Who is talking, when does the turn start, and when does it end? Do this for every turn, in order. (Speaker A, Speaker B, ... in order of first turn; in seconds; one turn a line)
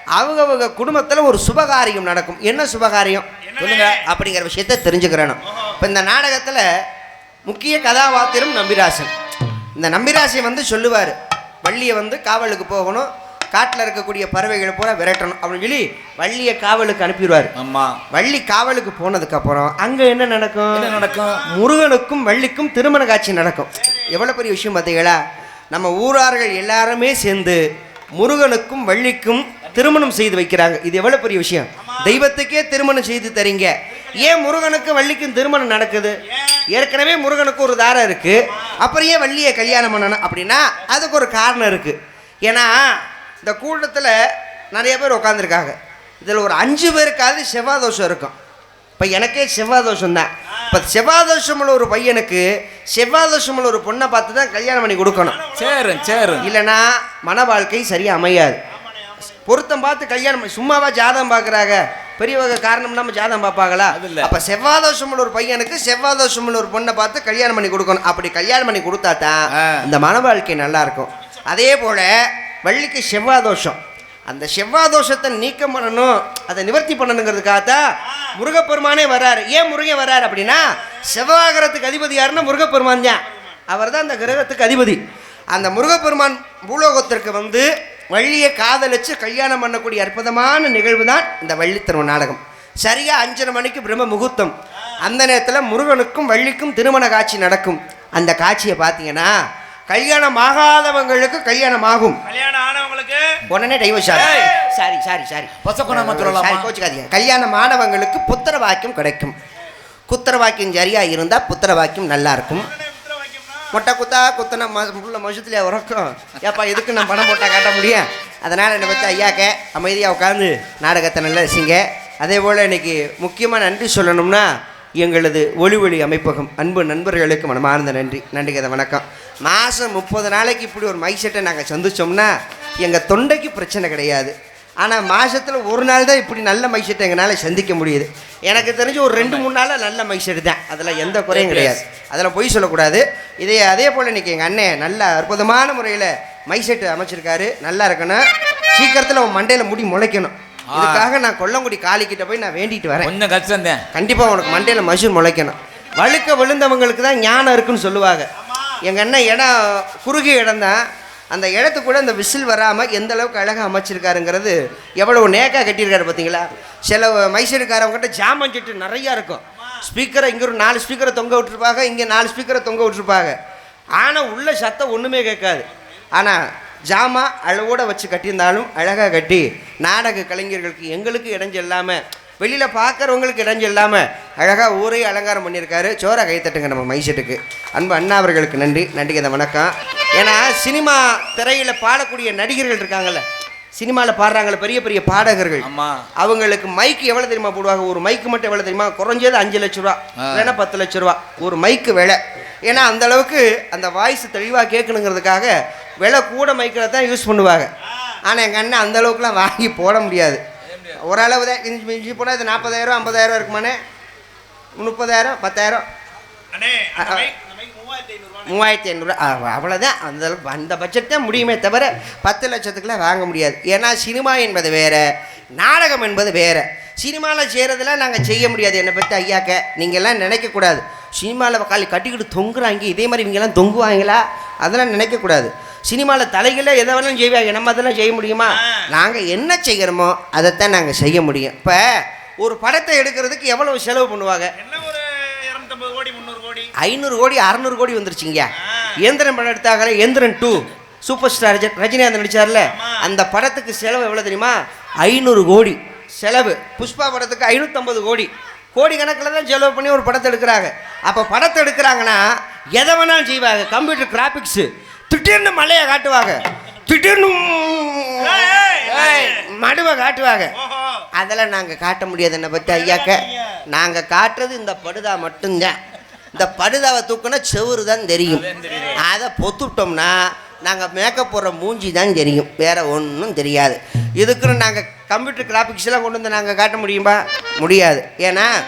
Speaker A: 0.2-6.7
Speaker B: 3.5-4.0
Speaker A: 7.5-9.1
Speaker A: 9.8-17.5
Speaker C: 17.6-18.0
Speaker A: 18.1-25.2
Speaker C: 20.7-21.5
Speaker B: 21.0-21.3
Speaker A: 25.7-27.6
Speaker A: 28.2-36.2
Speaker B: 31.8-32.1
Speaker A: 36.7-44.2
Speaker A: 44.7-48.3
Speaker A: 49.0-55.4
Speaker B: 55.3-56.4
Speaker C: 55.5-56.5
Speaker A: 56.4-58.6
Speaker B: 58.8-59.2
Speaker A: 59.5-85.0
Speaker C: 63.9-64.3
Speaker C: 69.5-69.9
Speaker A: 85.5-99.3
Speaker A: 99.9-102.2
Speaker B: 102.3-103.4
Speaker A: 103.5-109.3
Speaker C: 104.1-104.5
Speaker C: 105.6-106.7
Speaker A: 110.1-112.7
Speaker B: 112.7-113.7
Speaker A: 113.7-153.1
Speaker C: 139.2-139.5
Speaker C: 141.3-141.8
Speaker C: 150.7-151.1
Speaker C: 153.0-153.8
Speaker A: 153.9-158.3
Speaker A: 158.8-173.4
Speaker A: 174.0-193.2
Speaker A: 193.8-195.7
Speaker C: 195.6-196.1
Speaker A: 196.2-207.7
Speaker C: 200.2-200.5
Speaker A: 208.2-213.8
Speaker C: 210.7-211.0
Speaker A: 214.8-215.8
Speaker B: 216.5-218.5
Speaker A: 217.0-217.3
Speaker A: 218.4-225.1
Speaker A: 225.6-244.5
Speaker B: 244.6-246.7
Speaker A: 246.8-270.5
Speaker B: 268.2-269.4
Speaker B: 270.6-271.1
Speaker A: 271.1-275.8
Speaker B: 272.7-273.6
Speaker A: 276.3-288.5
Speaker C: 278.3-279.0